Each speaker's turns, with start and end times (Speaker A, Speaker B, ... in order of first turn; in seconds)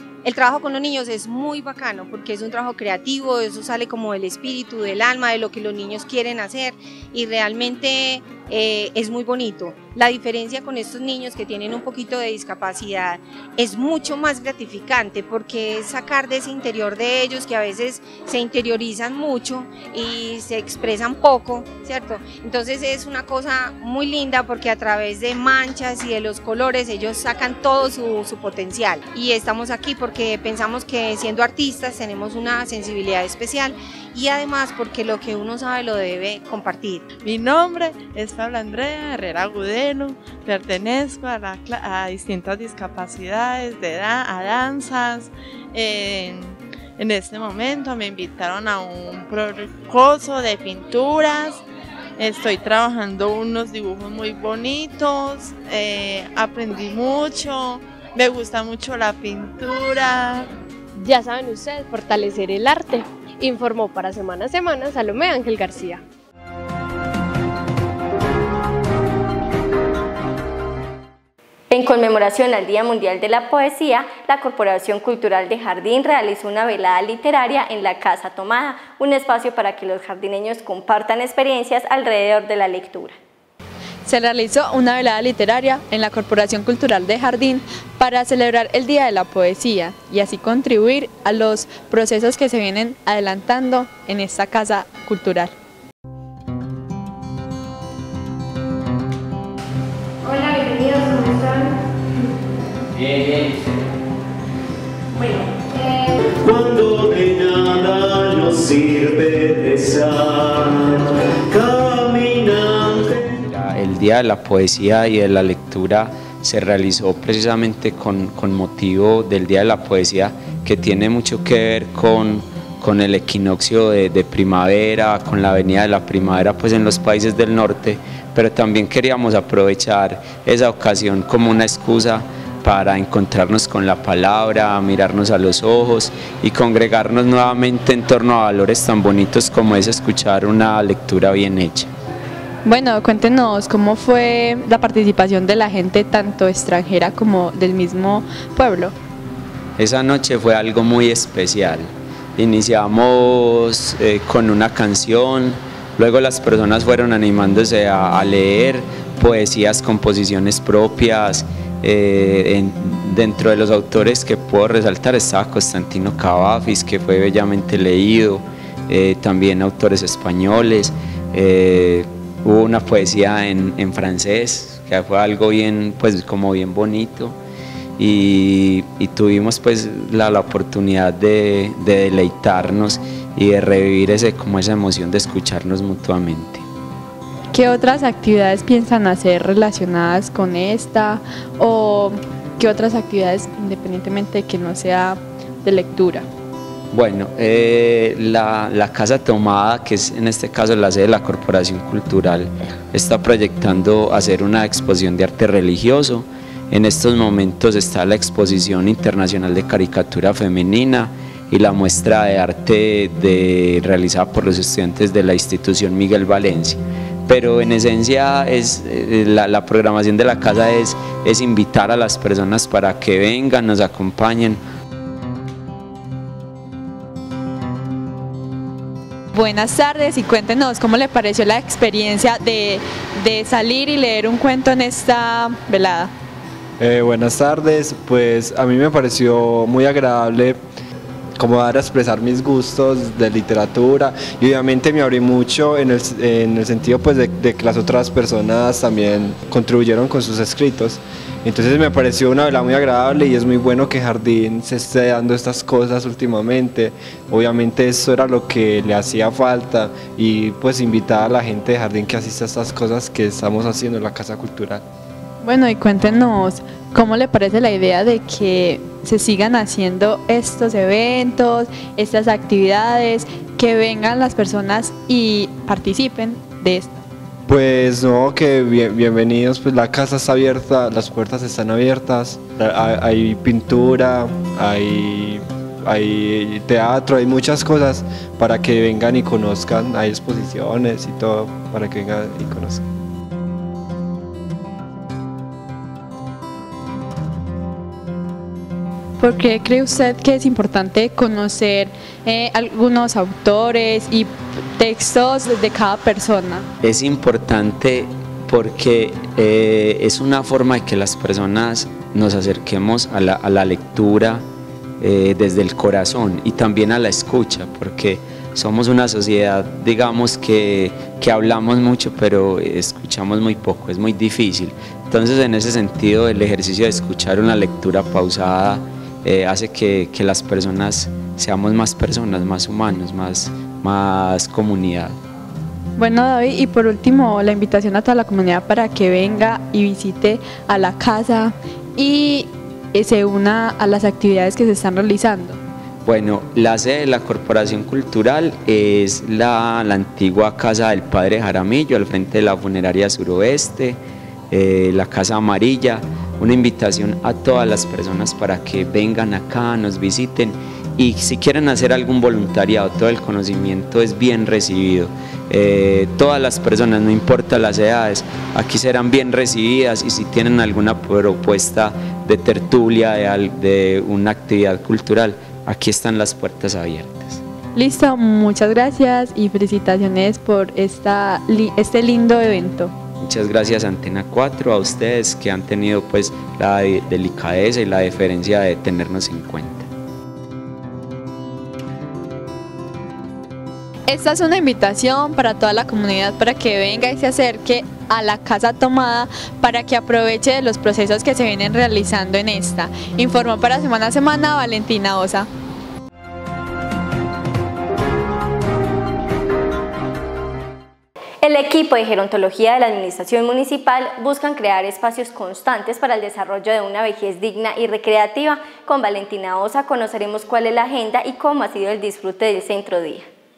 Speaker A: 0.2-37.0
Speaker B: 37.2-51.6, 52.2-60.5
Speaker C: 60.9-66.0
Speaker D: 71.7-83.2, 411.4-423.2
Speaker E: 84.0-95.5, 142.6-148.9, 187.5-196.3, 229.3-236.1, 265.4-277.0, 299.2-306.7, 336.0-345.6, 377.7-382.9, 394.1-405.5
Speaker F: 103.1-103.5, 106.4-113.4
Speaker G: 113.5-141.9, 149.8-177.4, 178.0-186.6, 196.9-224.6, 306.8-314.4, 315.0-335.2, 346.0-377.4, 383.2-389.9
Speaker H: 236.8-240.6, 241.4-264.8, 277.5-292.9